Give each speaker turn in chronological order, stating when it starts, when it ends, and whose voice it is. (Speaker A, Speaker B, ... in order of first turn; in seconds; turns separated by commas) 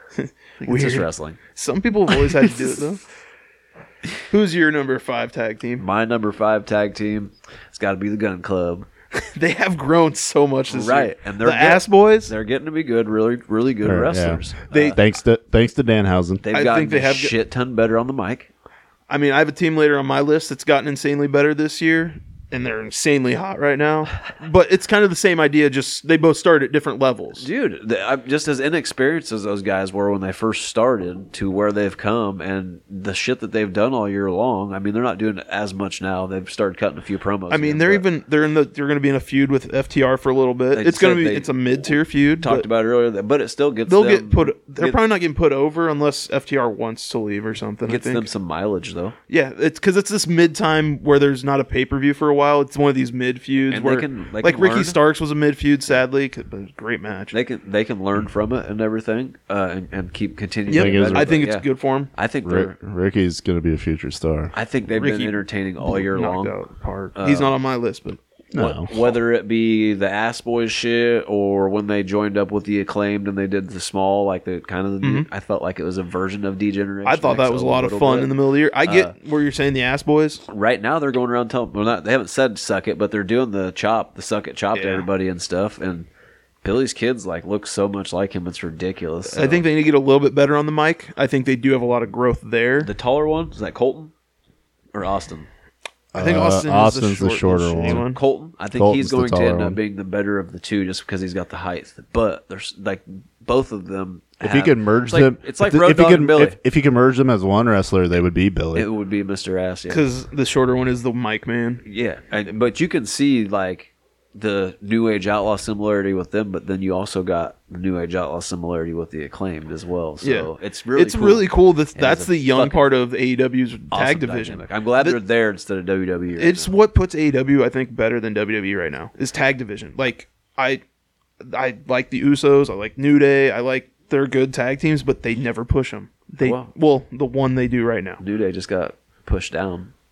Speaker A: 0.2-3.0, Speaker B: 0.6-1.4, Speaker A: 4.3-5.8, Speaker B: 5.8-8.9, Speaker A: 9.1-12.3, Speaker B: 10.7-15.0, Speaker C: 13.8-16.4, Speaker A: 14.7-15.0, Speaker B: 16.4-18.5, Speaker A: 16.5-17.3, Speaker A: 19.1-27.4, Speaker B: 27.4-38.0, Speaker A: 37.5-42.6, Speaker B: 40.7-41.5, Speaker B: 42.4-45.0, Speaker A: 43.9-48.2, Speaker B: 47.9-49.1, Speaker A: 49.3-57.4, Speaker B: 53.7-55.0, Speaker B: 57.3-61.6, Speaker A: 60.7-62.1, Speaker C: 60.7-61.4, Speaker B: 62.1-62.7, Speaker C: 62.4-64.5, Speaker B: 64.5-66.5, Speaker A: 65.0-68.2, Speaker B: 67.2-67.5, Speaker C: 68.5-68.9, Speaker B: 68.5-78.3, Speaker A: 75.0-75.3, Speaker A: 77.0-80.4, Speaker B: 78.8-79.1, Speaker B: 80.5-86.1, Speaker A: 84.7-85.1, Speaker B: 86.6-89.6, Speaker A: 89.3-92.9, Speaker B: 92.8-94.1, Speaker B: 94.9-95.5, Speaker C: 96.1-98.1, Speaker A: 96.1-98.2, Speaker B: 97.9-106.5, Speaker C: 98.7-99.8, Speaker C: 104.4-108.9, Speaker B: 108.7-110.0, Speaker A: 109.9-111.8, Speaker B: 111.8-122.9, Speaker A: 120.2-125.2, Speaker B: 123.9-126.7, Speaker A: 126.4-130.8, Speaker A: 131.4-138.2, Speaker B: 136.4-136.7, Speaker B: 138.2-139.9